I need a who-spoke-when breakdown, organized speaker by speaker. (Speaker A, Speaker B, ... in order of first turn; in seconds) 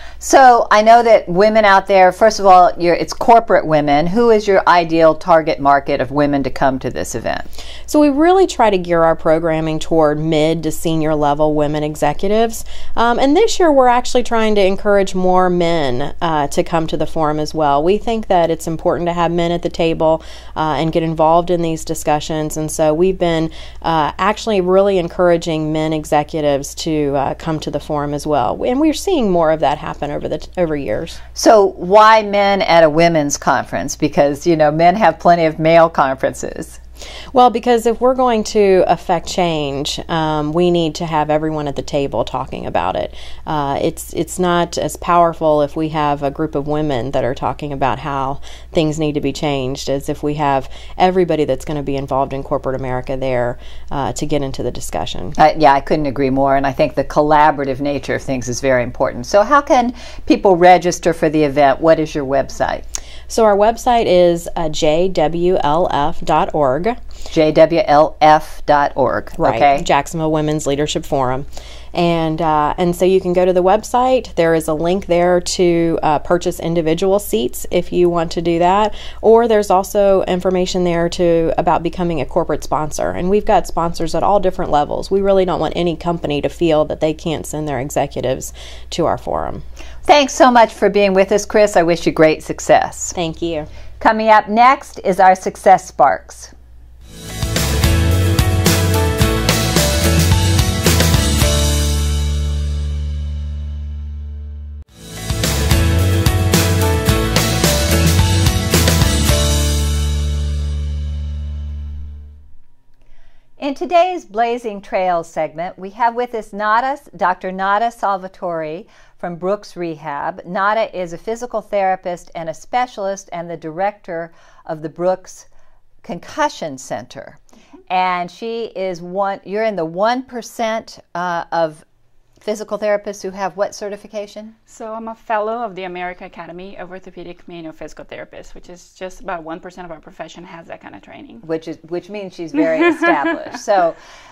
Speaker A: 0.2-7.5, 31.4-36.8, 55.4-62.8, 67.3-69.9, 90.0-93.2, 94.0-96.5, 113.6-125.5, 126.0-127.4, 127.9-131.8, 132.4-134.6, 141.4-144.0
Speaker B: 7.9-31.2, 37.3-55.4, 63.3-67.0, 69.4-89.6, 93.2-93.7
Speaker C: 134.7-141.4